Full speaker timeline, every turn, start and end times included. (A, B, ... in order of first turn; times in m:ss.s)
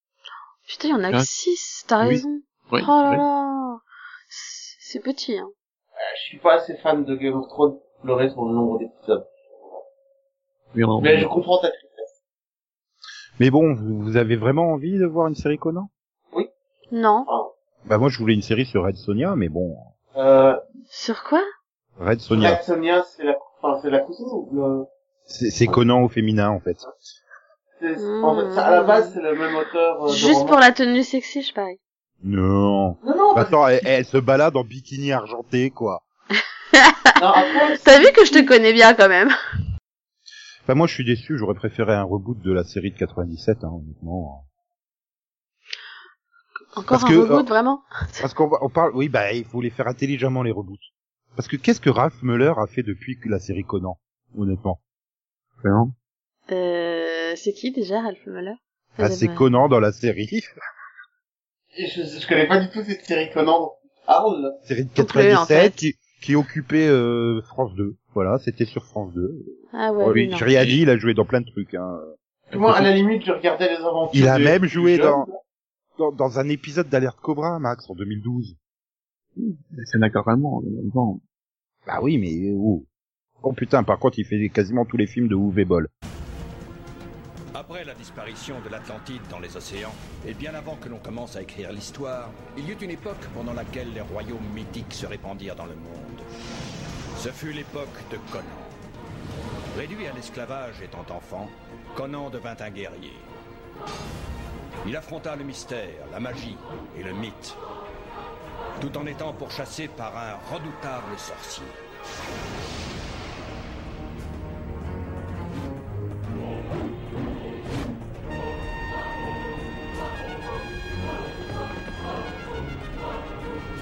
0:00.7-0:05.5 A
0:02.0-0:03.2 B
0:06.0-0:09.3 C
0:10.7-0:11.3 B
0:11.0-0:12.2 C
0:13.4-0:15.9 D
0:16.9-0:17.3 A
0:17.9-0:19.9 D
0:20.2-0:20.6 C
0:20.9-0:21.5 A
0:22.0-0:22.6 D
0:22.3-0:24.9 C
0:25.3-0:26.9 D
0:27.8-0:30.6 C
0:28.0-0:29.1 A
0:30.1-0:31.8 A
0:32.2-0:36.0 D
0:33.0-0:33.9 C
0:36.8-0:39.3 A
0:37.2-0:38.5 C
0:40.7-0:44.4 D
0:46.8-0:48.2 A
0:46.9-0:47.5 D
0:48.2-0:50.8 D
0:51.4-0:54.8 D
0:55.6-0:55.9 B
0:56.5-0:59.5 A
0:59.0-1:00.5 D
1:01.8-1:04.6 C
1:04.7-1:09.6 D
1:05.0-1:05.8 A
1:09.7-1:10.5 A
1:10.1-1:12.1 D
1:10.1-1:10.7 B
1:12.5-1:15.4 C
1:12.5-1:12.9 B
1:14.1-1:15.3 D
1:16.0-1:18.6 D
1:19.4-1:21.2 B
1:21.9-1:22.9 D
1:23.4-1:25.9 D
1:27.5-1:36.3 E
1:37.2-1:38.8 E
1:39.7-1:43.3 E
1:44.8-1:47.6 E
1:48.8-1:51.8 E